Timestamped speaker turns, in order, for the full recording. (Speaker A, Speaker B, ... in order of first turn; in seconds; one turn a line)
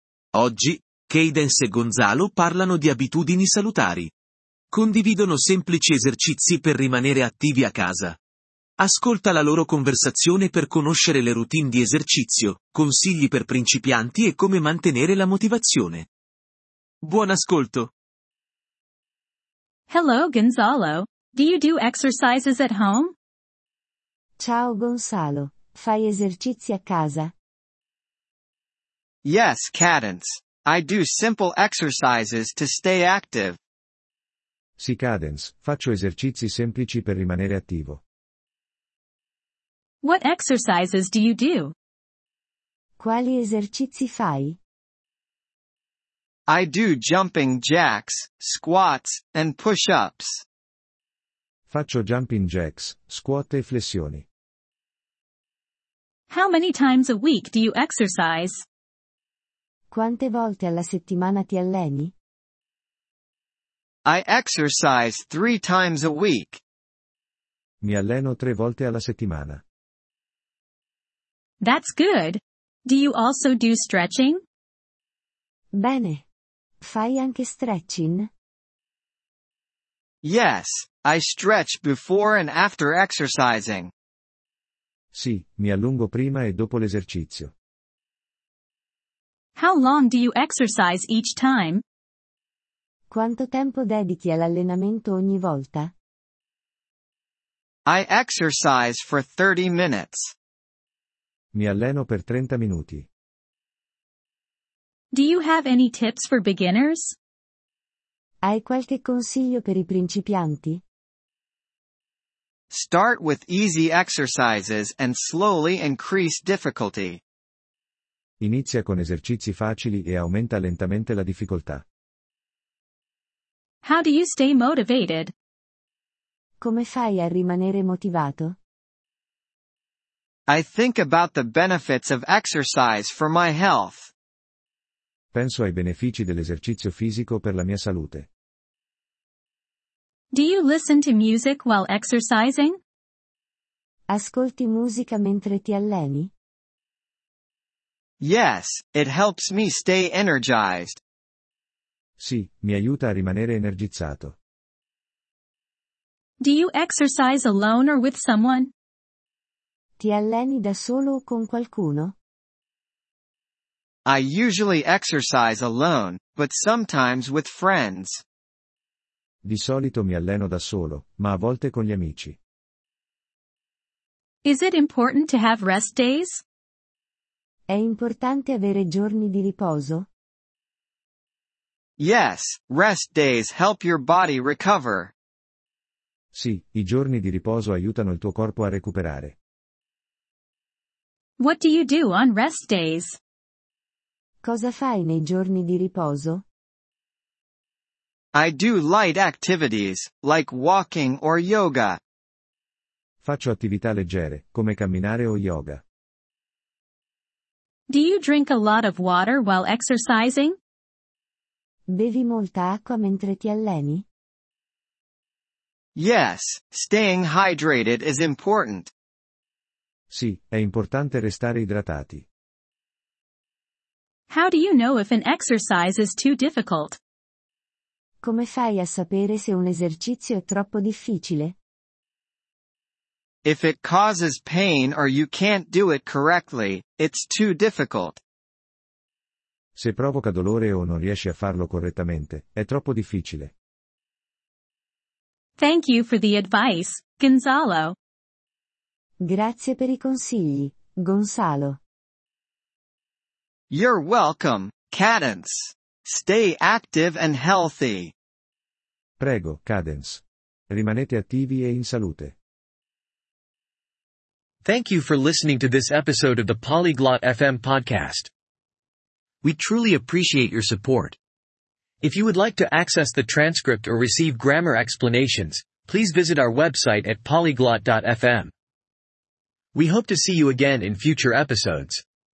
Speaker A: 0.3-4.1
Speaker A: 4.7-8.2
Speaker A: 8.8-16.1
Speaker A: 17.0-17.9
Speaker B: 19.9-23.1
Speaker C: 24.4-27.3
Speaker D: 29.2-33.6
Speaker E: 34.8-38.0
Speaker B: 40.0-41.7
Speaker C: 43.0-44.6
Speaker D: 46.5-50.4
Speaker E: 51.7-54.3
Speaker B: 56.3-58.6
Speaker C: 59.9-62.1
Speaker D: 64.1-66.6
Speaker E: 67.8-69.6
Speaker B: 71.6-74.4
Speaker C: 75.7-76.2
Speaker C: 76.8-78.3
Speaker D: 80.2-83.9
Speaker E: 85.1-87.5
Speaker B: 89.5-91.8
Speaker C: 93.1-95.9
Speaker D: 97.9-100.3
Speaker E: 101.5-103.1
Speaker B: 105.1-107.2
Speaker C: 108.4-110.8
Speaker D: 112.7-117.2
Speaker E: 118.4-121.8
Speaker B: 123.8-125.3
Speaker C: 126.6-128.6
Speaker D: 130.5-134.1
Speaker E: 135.3-138.3
Speaker B: 140.3-142.8
Speaker C: 144.1-146.3
Speaker D: 148.2-151.0
Speaker E: 152.2-154.3
Speaker B: 156.4-158.7
Speaker C: 160.0-162.1
Speaker D: 164.1-168.2
Speaker E: 169.4-172.4
Speaker B: 174.4-176.4
Speaker C: 177.7-180.1
Speaker D: 182.0-185.1
Speaker E: 186.3-189.3
Speaker B: 191.4-193.2
Speaker C: 194.4-196.4
Speaker D: 198.3-202.0
Speaker E: 203.2-205.8
Speaker B: 207.9-210.6
Speaker C: 211.9-214.0
Speaker D: 216.0-218.9
Speaker E: 220.1-222.2
Speaker B: 224.3-227.0
Speaker C: 228.2-231.5
Speaker D: 233.4-238.2
Speaker E: 239.8-243.5
Speaker B: 245.6-248.0
Speaker C: 249.2-251.8
Speaker D: 253.7-258.1
Speaker E: 259.2-262.3
Speaker F: 264.6-268.3
Speaker F: 269.4-271.2
Speaker F: 272.0-278.5
Speaker F: 279.7-282.0